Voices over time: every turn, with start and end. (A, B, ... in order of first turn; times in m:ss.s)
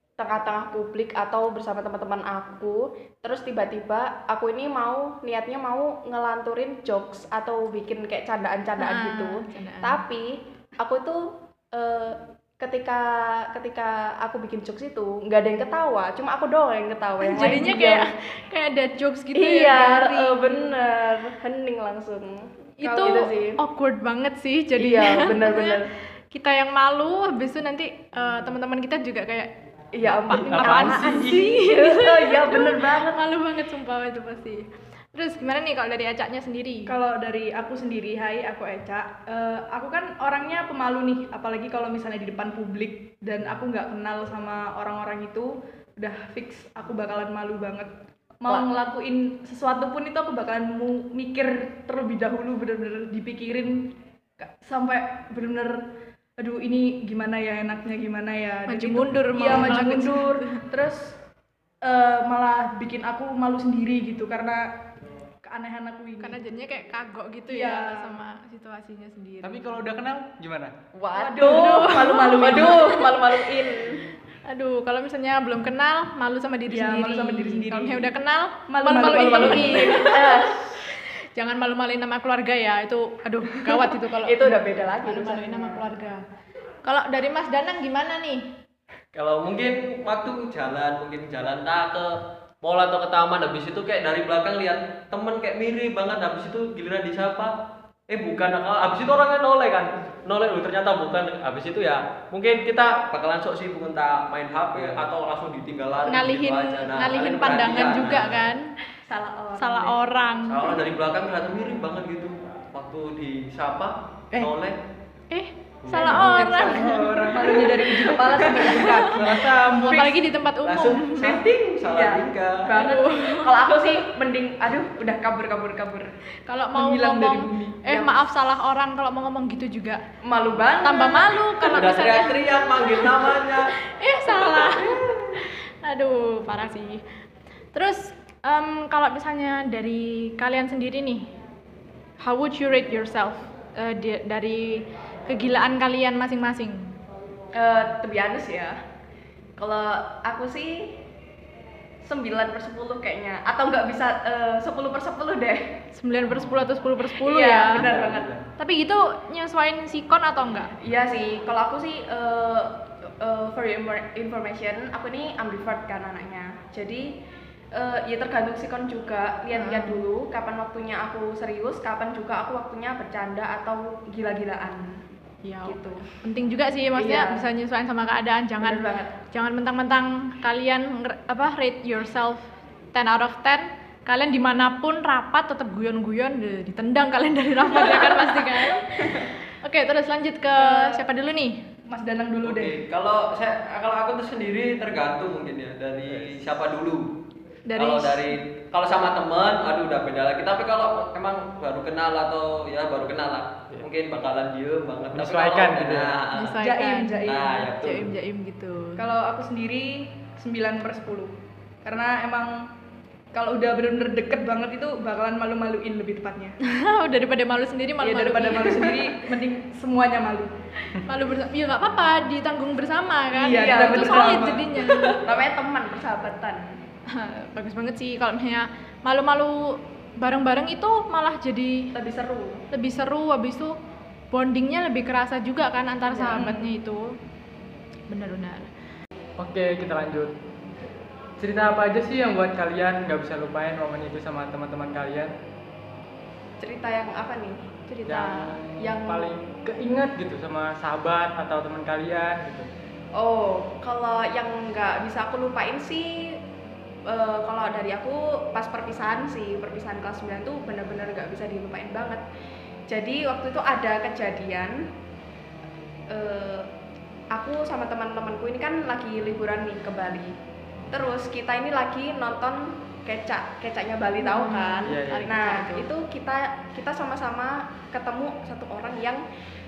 0:00.2-0:18.1 A
0:08.8-0:10.0 B
0:17.2-0:20.8 B
0:19.3-0:23.6 A
0:22.8-0:25.8 B
0:22.8-0:23.3 C
0:24.8-0:25.9 A
0:26.3-0:29.5 B
0:29.9-0:33.2 A
0:30.0-0:31.4 D
0:30.3-0:36.9 B
0:36.9-0:55.8 C
0:56.4-1:01.2 C
0:58.7-1:00.6 B
1:01.8-1:04.7 C
1:05.4-1:06.4 C
1:06.2-1:09.6 B
1:07.5-1:08.2 C
1:09.4-1:10.8 D
1:10.9-1:14.0 A
1:11.2-1:12.9 C
1:11.4-1:13.5 B
1:14.5-1:26.2 B
1:16.7-1:18.1 C
1:18.7-1:20.2 C
1:19.1-1:20.8 A
1:24.2-1:25.9 A
1:26.8-1:28.4 B
1:29.1-1:37.5 E
1:38.1-1:48.4 E
1:46.1-1:48.8 B
1:49.0-1:50.0 A
1:49.6-1:50.8 B
1:50.5-1:54.8 E
1:55.3-2:01.4 B
1:55.8-1:56.6 E
1:56.0-1:57.4 D
1:56.0-1:59.5 C
1:59.1-2:02.7 E
2:01.2-2:06.1 A
2:02.7-2:04.0 B
2:06.4-2:10.0 B
2:06.7-2:07.9 C
2:07.9-2:08.2 A
2:10.2-2:11.9 A
2:10.8-2:17.0 B
2:11.7-2:13.8 E
2:14.6-2:15.2 A
2:17.7-2:21.3 B
2:22.2-2:26.9 B
2:27.5-2:28.8 A
2:29.6-2:31.0 A
2:32.0-2:35.7 A
2:35.9-2:37.8 B
2:36.2-2:36.6 D
2:37.1-2:38.3 A
2:37.8-2:38.4 D
2:38.6-2:40.7 B
2:40.8-2:47.2 A
2:47.7-2:55.1 A
2:49.5-2:50.0 B
2:55.4-3:11.6 B
2:55.6-2:56.1 A
2:56.9-2:57.4 A
2:58.6-2:59.1 A
3:07.8-3:09.3 A
3:10.6-3:11.1 C
3:11.9-3:12.8 C
3:12.4-3:17.1 E
3:17.7-3:18.2 B
3:17.8-3:26.6 E
3:25.1-3:26.1 D
3:26.3-3:29.1 B
3:26.6-3:27.7 C
3:27.2-3:28.1 E
3:29.0-3:31.3 C
3:31.8-3:32.5 C
3:33.3-3:36.6 C
3:36.6-3:39.2 B
3:38.0-3:40.5 C
3:41.0-3:45.2 B
3:43.3-3:45.2 C
3:43.5-3:44.4 A
3:45.2-3:46.8 A
3:47.1-3:51.9 B
3:51.9-3:52.6 A
3:52.7-3:53.8 B
3:54.3-3:57.1 B
3:56.1-3:56.4 A
3:56.3-3:56.7 C
3:58.1-3:58.7 B
3:59.4-4:00.3 D
4:01.4-4:05.3 D
4:06.6-4:07.6 A
4:07.9-4:08.6 B
4:08.1-4:12.7 D
4:08.8-4:09.3 A
4:13.1-4:16.4 A
4:17.1-4:22.2 A
4:22.9-4:24.9 A
4:26.1-4:26.7 A
4:27.3-4:30.4 A
4:30.9-4:39.2 A
4:34.2-4:35.9 B
4:34.8-4:35.4 D